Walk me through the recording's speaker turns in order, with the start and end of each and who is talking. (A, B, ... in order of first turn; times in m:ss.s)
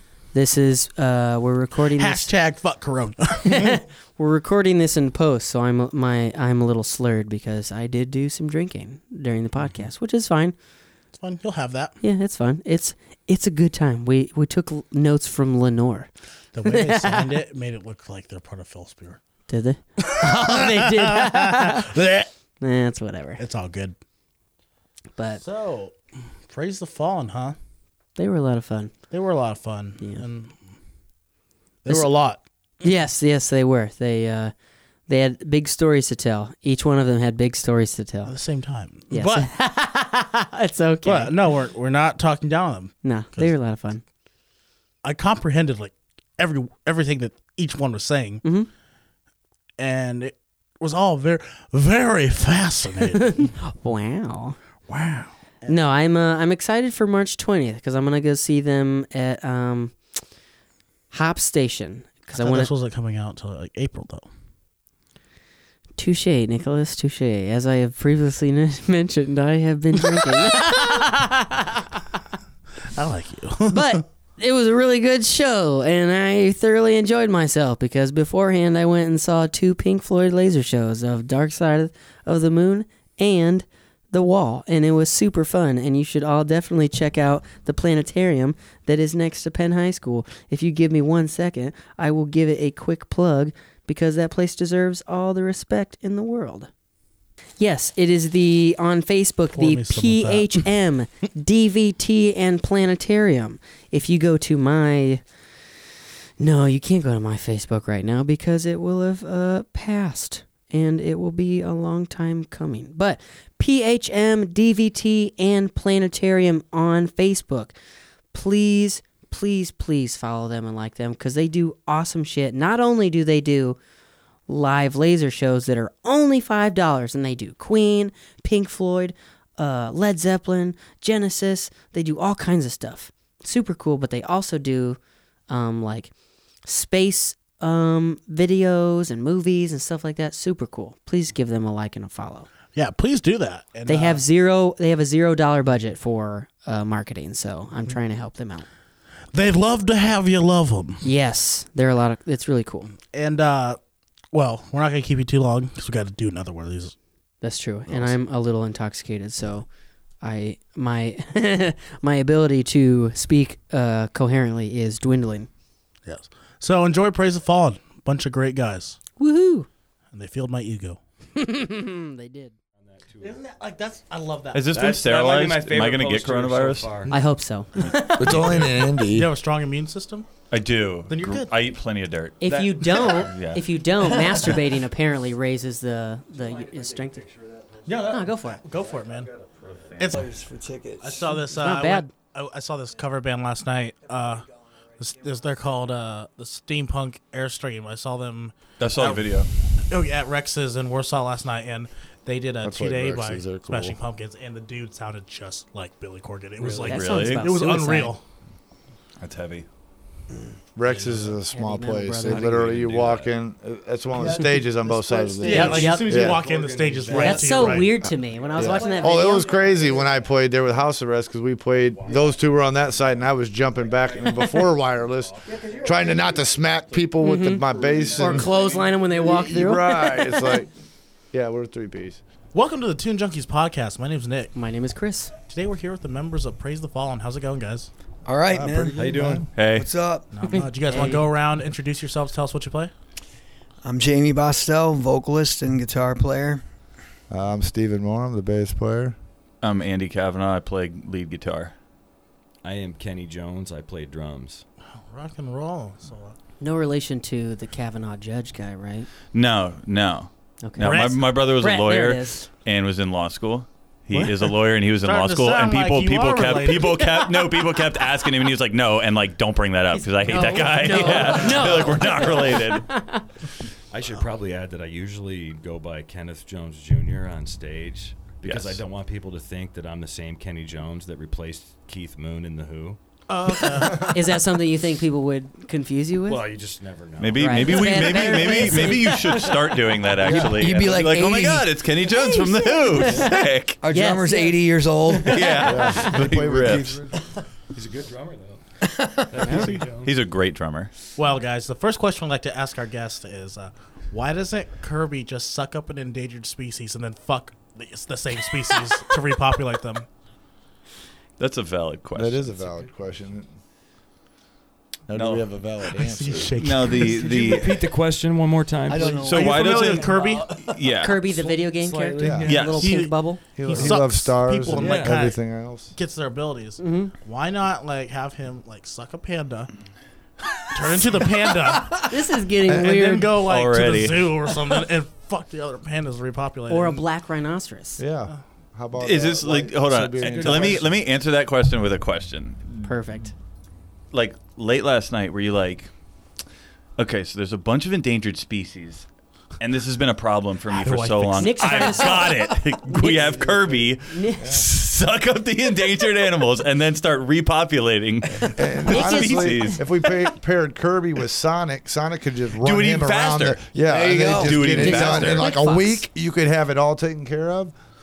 0:00.3-0:02.3 A
0:01.9-0:03.8 B
0:03.4-0:10.5 A
0:11.1-0:11.9 B
0:12.0-0:16.1 A
0:16.5-0:19.2 B
0:16.6-0:17.3 A
0:19.5-0:21.9 A
0:20.0-0:22.3 B
0:22.6-0:23.4 A
0:23.4-0:24.0 B
0:25.4-0:25.9 B
0:26.5-0:27.6 B
0:28.2-0:28.9 A
0:29.1-0:30.5 B
0:31.8-0:32.4 B
0:32.8-0:34.5 A
0:35.1-0:38.3 A
0:38.2-0:39.5 B
0:39.1-0:41.3 A
0:41.0-0:43.5 B
0:43.0-0:44.0 A
0:45.0-0:48.4 B
0:48.4-0:48.7 A
0:49.8-0:53.5 B
0:53.1-0:54.6 A
0:54.9-0:55.8 B
0:55.6-1:00.0 A
1:01.1-1:02.7 A
1:02.3-1:04.2 B
1:06.0-1:11.8 A
1:10.1-1:10.6 B
1:12.9-1:14.0 B
1:13.7-1:36.7 A
1:37.6-1:45.2 A
1:39.5-1:40.6 B
1:46.4-1:57.7 A
1:58.3-2:03.8 A
2:04.5-2:16.1 A
2:16.6-2:22.5 A
2:22.7-2:24.2 B
2:23.8-2:28.7 A
2:29.3-2:31.0 B
2:31.0-2:32.9 A
2:33.1-2:33.8 B
2:34.3-2:36.9 B
2:37.4-2:39.7 A
2:40.2-2:45.5 A
2:46.0-2:49.0 B
2:49.2-2:49.7 A
2:50.1-2:51.0 B
2:51.4-2:52.5 A
2:52.8-2:53.4 C
2:53.2-2:54.7 B
2:54.5-2:56.9 D
2:54.7-2:57.2 C
2:57.1-2:58.5 A
2:58.2-2:59.3 E
2:58.3-3:00.3 B
3:00.5-3:02.4 D
3:01.1-3:01.5 B
3:02.4-3:07.2 A
3:02.4-3:03.4 C
3:03.0-3:03.6 D
3:06.3-3:08.2 C
3:07.8-3:09.3 B
3:08.0-3:08.6 A
3:08.8-3:10.1 C
3:10.0-3:10.3 B
3:10.1-3:11.4 F
3:11.0-3:19.4 B
3:11.6-3:12.1 A
3:18.8-3:19.5 D
3:19.9-3:28.2 B
3:22.6-3:24.0 E
3:26.6-3:27.0 C
3:26.8-3:28.1 A
3:26.9-3:27.5 D
3:29.2-3:29.6 D
3:30.8-3:36.4 E
3:30.9-3:31.3 C
3:31.5-3:32.5 A
3:32.2-3:33.3 C
3:34.2-3:35.9 F
3:35.4-3:40.3 C
3:35.4-3:37.9 B
3:35.5-3:36.1 A
3:37.1-3:39.5 A
3:38.6-3:48.5 E
3:41.9-3:43.1 C
3:43.8-3:44.5 C
3:44.3-3:44.6 A
3:45.2-3:49.5 C
3:47.2-3:47.6 A
3:48.2-3:50.6 A
3:49.2-3:50.7 E
3:51.3-3:52.2 E
3:52.5-3:54.5 B
3:54.5-3:55.3 A
3:55.4-3:57.9 B
3:58.2-3:59.0 F
3:58.5-3:59.5 E
3:58.9-3:59.5 C
3:59.5-3:59.9 D
3:59.7-4:00.3 F
4:00.3-4:02.9 B
4:00.5-4:01.2 A
4:03.8-4:06.6 F
4:07.3-4:09.2 E
4:09.6-4:11.7 D
4:12.6-4:14.6 C
4:15.0-4:16.3 B
4:16.6-4:19.1 A
4:19.3-4:32.9 D
4:20.6-4:22.5 A
4:20.8-4:21.2 B
4:24.1-4:27.0 B
4:29.9-4:33.2 A
4:30.9-4:31.7 F
4:31.0-4:31.6 B
4:31.3-4:31.6 C
4:33.9-4:43.0 C
4:38.4-4:38.8 D
4:43.3-4:44.2 B
4:43.8-4:46.4 A
4:46.2-4:49.5 C
4:47.2-4:53.8 D
4:47.4-4:49.7 A
4:50.2-4:50.7 C
4:50.2-4:51.8 F
4:52.0-4:54.6 A
4:53.8-4:55.7 F
4:55.2-4:57.0 D
4:55.3-4:55.9 C
4:55.6-4:57.2 E
4:57.7-4:58.6 C
4:58.9-4:59.7 F
4:59.3-5:00.1 C
5:00.0-5:00.9 D
5:01.2-5:10.1 B
5:11.4-5:12.4 D
5:12.1-5:13.5 E
5:15.1-5:16.6 E
5:15.1-5:15.5 D
5:16.0-5:17.2 B
5:16.6-5:17.8 D
5:16.8-5:22.9 C
5:18.9-5:20.1 F
5:19.2-5:21.2 D
5:19.3-5:20.5 B
5:21.0-5:23.8 A
5:22.2-5:22.5 E
5:22.5-5:22.9 D
5:22.8-5:29.7 B
5:23.6-5:25.9 E
5:24.7-5:25.2 C
5:26.8-5:27.1 A
5:30.7-5:32.0 B
5:32.1-5:33.3 A
5:32.7-5:37.0 B
5:33.4-5:34.3 D
5:36.7-5:38.0 A
5:38.0-5:40.9 E
5:39.0-5:42.9 D
5:40.2-5:40.9 C
5:42.8-5:43.3 A
5:44.1-5:45.9 D
5:47.0-5:49.0 D
5:49.6-5:59.8 D
5:50.7-5:52.0 B
5:51.4-5:53.4 A
5:53.0-5:54.6 E
5:54.1-5:54.6 A
5:58.5-6:07.7 E
5:58.9-5:59.8 A
6:02.6-6:05.4 D
6:03.8-6:04.8 F
6:04.8-6:06.0 A